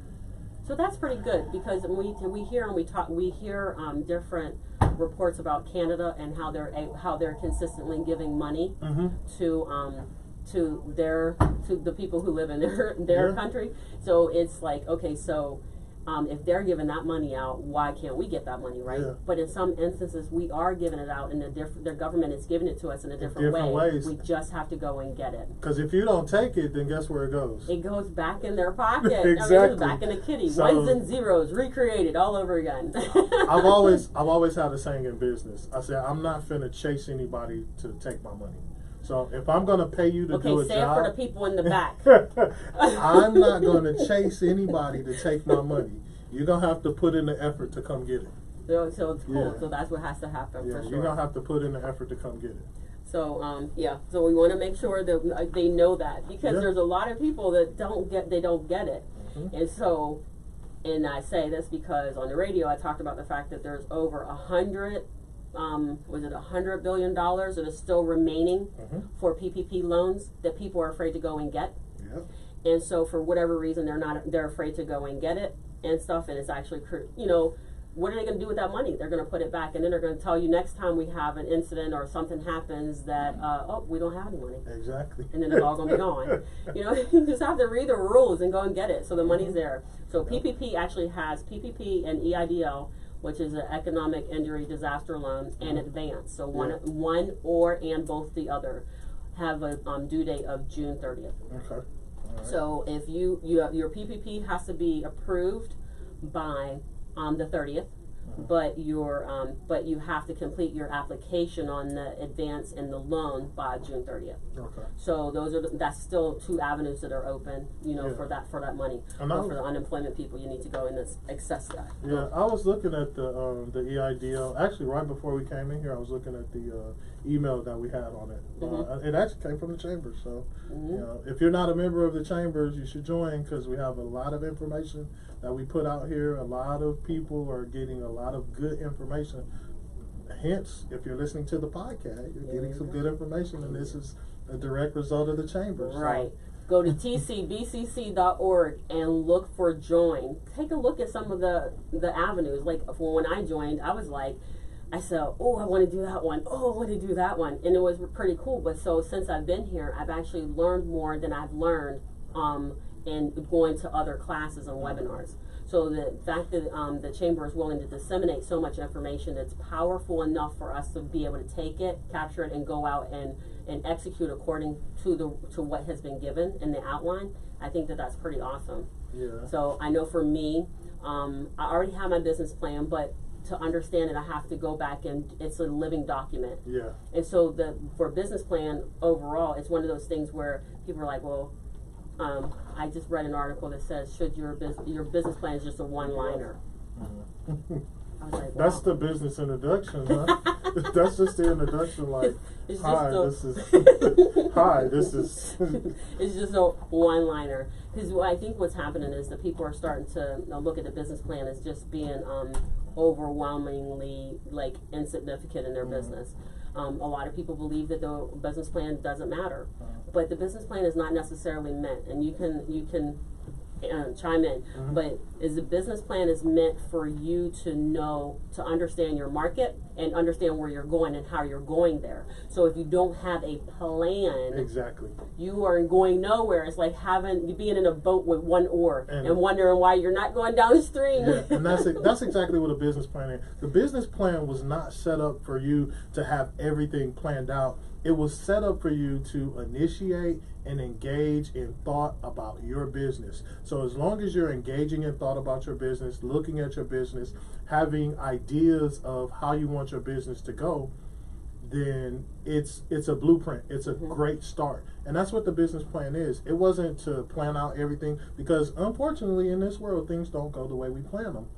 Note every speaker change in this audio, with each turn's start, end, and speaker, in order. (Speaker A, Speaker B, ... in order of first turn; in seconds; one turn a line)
Speaker A: 0.6-25.6
Speaker B: 8.8-9.2
Speaker B: 13.1-13.4
Speaker B: 18.9-19.1
Speaker B: 23.2-24.2
Speaker B: 25.6-27.7
Speaker A: 27.7-34.0
Speaker B: 29.0-31.0
Speaker B: 33.3-48.3
Speaker A: 40.3-42.1
Speaker A: 42.7-44.5
Speaker A: 48.7-51.2
Speaker B: 49.3-49.6
Speaker B: 50.6-52.7
Speaker A: 53.0-60.2
Speaker B: 56.4-56.7
Speaker B: 59.2-59.5
Speaker A: 60.8-71.8
Speaker B: 68.8-69.0
Speaker B: 72.0-72.2
Speaker A: 72.6-84.7
Speaker B: 84.7-86.4
Speaker A: 85.3-101.4
Speaker B: 89.2-89.5
Speaker B: 96.5-96.8
Speaker B: 101.5-102.5
Speaker A: 102.4-114.4
Speaker B: 108.2-108.5
Speaker B: 114.5-114.9
Speaker A: 115.0-122.3
Speaker B: 118.0-118.2
Speaker B: 119.2-119.6
Speaker B: 122.0-139.4
Speaker A: 128.6-128.9
Speaker A: 130.7-131.0
Speaker B: 140.3-146.3
Speaker A: 142.4-143.0
Speaker A: 143.6-143.9
Speaker A: 145.8-154.4
Speaker A: 154.9-178.9
Speaker B: 164.8-165.1
Speaker B: 179.1-179.5
Speaker A: 179.4-191.5
Speaker B: 186.6-187.0
Speaker A: 192.2-196.6
Speaker B: 196.1-196.4
Speaker B: 196.9-197.8
Speaker A: 198.2-198.8
Speaker B: 198.5-205.9
Speaker A: 200.1-201.3
Speaker A: 202.2-223.2
Speaker B: 215.8-216.1
Speaker A: 223.8-234.6
Speaker B: 224.7-225.0
Speaker B: 234.5-235.2
Speaker A: 235.3-242.1
Speaker B: 239.1-239.4
Speaker B: 241.2-260.9
Speaker B: 261.6-271.5
Speaker A: 263.9-264.1